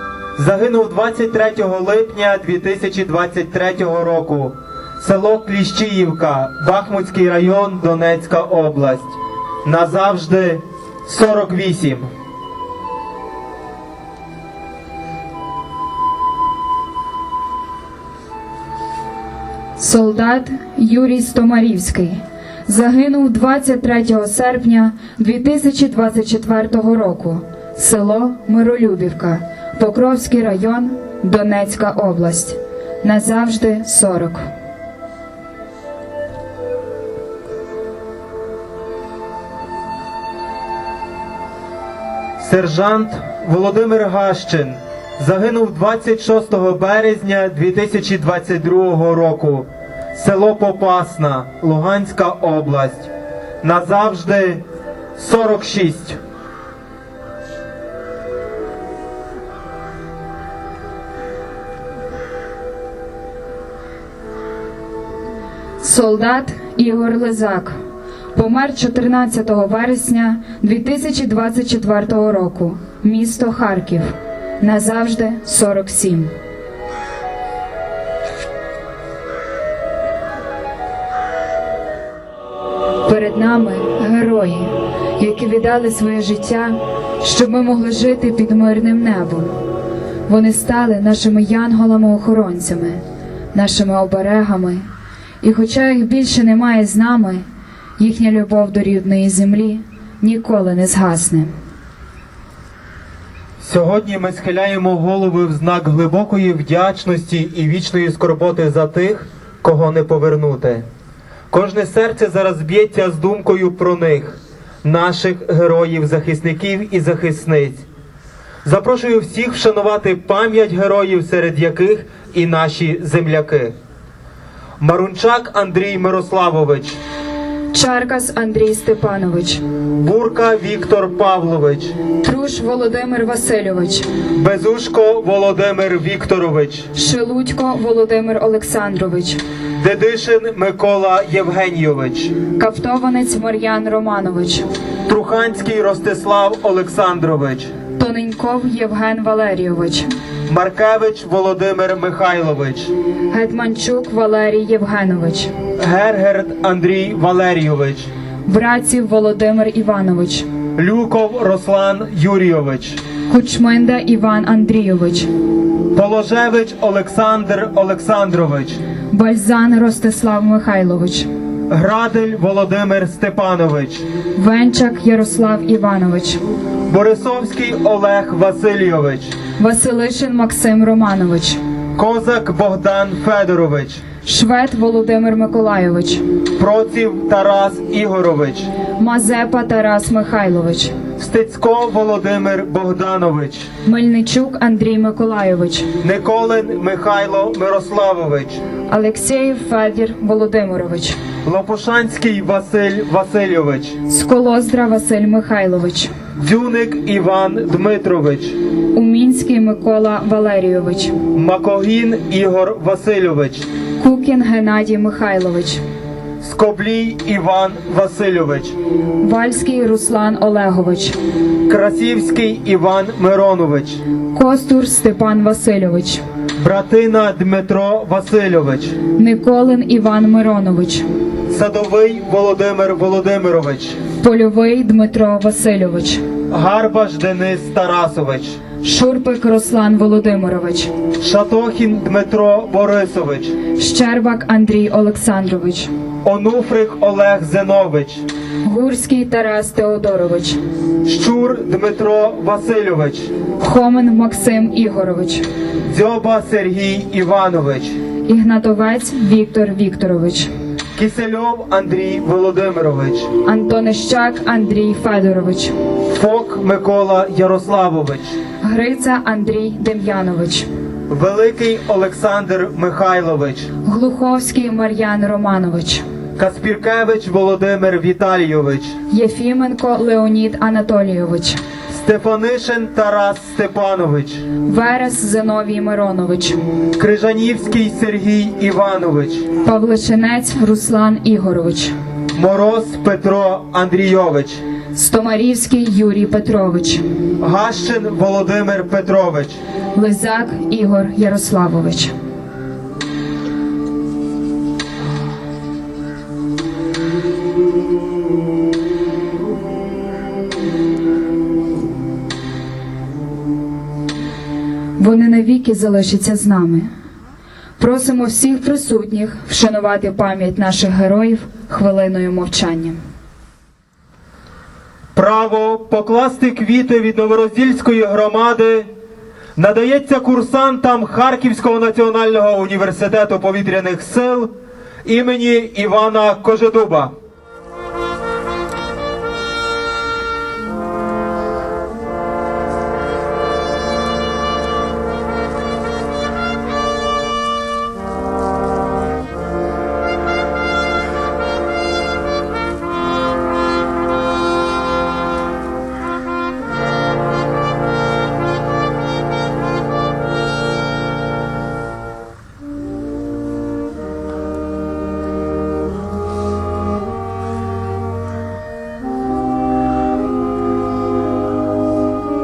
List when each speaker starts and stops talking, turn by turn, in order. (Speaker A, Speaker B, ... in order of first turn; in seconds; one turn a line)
Speaker A: 0.4-12.1
Speaker B: 19.8-34.5
Speaker A: 42.4-53.1
Speaker A: 53.6-54.6
Speaker A: 55.2-56.2
Speaker B: 65.8-67.8
Speaker B: 68.3-76.3
Speaker B: 83.0-89.6
Speaker B: 90.3-94.9
Speaker B: 95.4-97.5
Speaker B: 98.0-101.5
Speaker A: 103.6-110.8
Speaker A: 111.5-117.8
Speaker A: 118.6-123.7
Speaker A: 124.8-127.0
Speaker B: 127.7-129.6
Speaker A: 130.0-131.9
Speaker B: 132.2-134.1
Speaker A: 134.4-136.9
Speaker B: 136.9-139.4
Speaker A: 139.8-142.4
Speaker B: 142.6-144.7
Speaker A: 145.1-147.7
Speaker B: 147.9-150.1
Speaker A: 150.5-152.9
Speaker B: 153.3-155.5
Speaker A: 155.8-158.1
Speaker B: 158.5-160.5
Speaker A: 160.8-163.0
Speaker B: 163.3-165.3
Speaker A: 165.9-168.8
Speaker B: 169.1-171.3
Speaker A: 171.7-174.1
Speaker B: 174.4-176.4
Speaker A: 176.9-179.4
Speaker B: 179.6-181.6
Speaker A: 182.0-184.0
Speaker B: 184.2-186.2
Speaker A: 186.6-188.7
Speaker B: 189.0-191.0
Speaker A: 191.2-193.7
Speaker B: 193.9-195.9
Speaker A: 196.0-198.6
Speaker B: 198.9-201.2
Speaker A: 201.4-204.0
Speaker B: 204.1-206.1
Speaker A: 206.4-208.6
Speaker B: 208.9-211.2
Speaker A: 211.3-213.7
Speaker B: 214.0-215.8
Speaker A: 216.4-218.8
Speaker B: 219.2-221.2
Speaker A: 221.7-224.0
Speaker B: 224.3-226.2
Speaker A: 226.6-229.0
Speaker B: 229.2-231.1
Speaker A: 231.5-234.0
Speaker B: 234.2-236.2
Speaker A: 236.5-238.6
Speaker B: 238.8-240.9
Speaker A: 241.2-243.6
Speaker B: 243.7-245.9
Speaker A: 246.2-248.3
Speaker B: 248.7-250.6
Speaker A: 251.0-253.3
Speaker B: 253.6-255.5
Speaker A: 255.9-258.0
Speaker B: 258.3-260.5
Speaker A: 261.0-263.3
Speaker B: 263.4-265.8
Speaker A: 266.1-268.4
Speaker B: 268.6-270.7
Speaker A: 271.1-273.7
Speaker B: 273.8-276.1
Speaker A: 276.4-279.0
Speaker B: 279.1-281.6
Speaker A: 281.9-284.4
Speaker B: 284.6-286.6
Speaker A: 287.0-289.5
Speaker B: 289.6-291.9
Speaker A: 292.4-294.6
Speaker B: 294.9-297.1
Speaker A: 297.4-299.6
Speaker B: 299.9-302.1
Speaker B: 315.0-316.9
Speaker B: 317.8-323.0
Speaker A: 325.1-328.9
Speaker A: 329.6-334.5
Speaker A: 335.1-337.1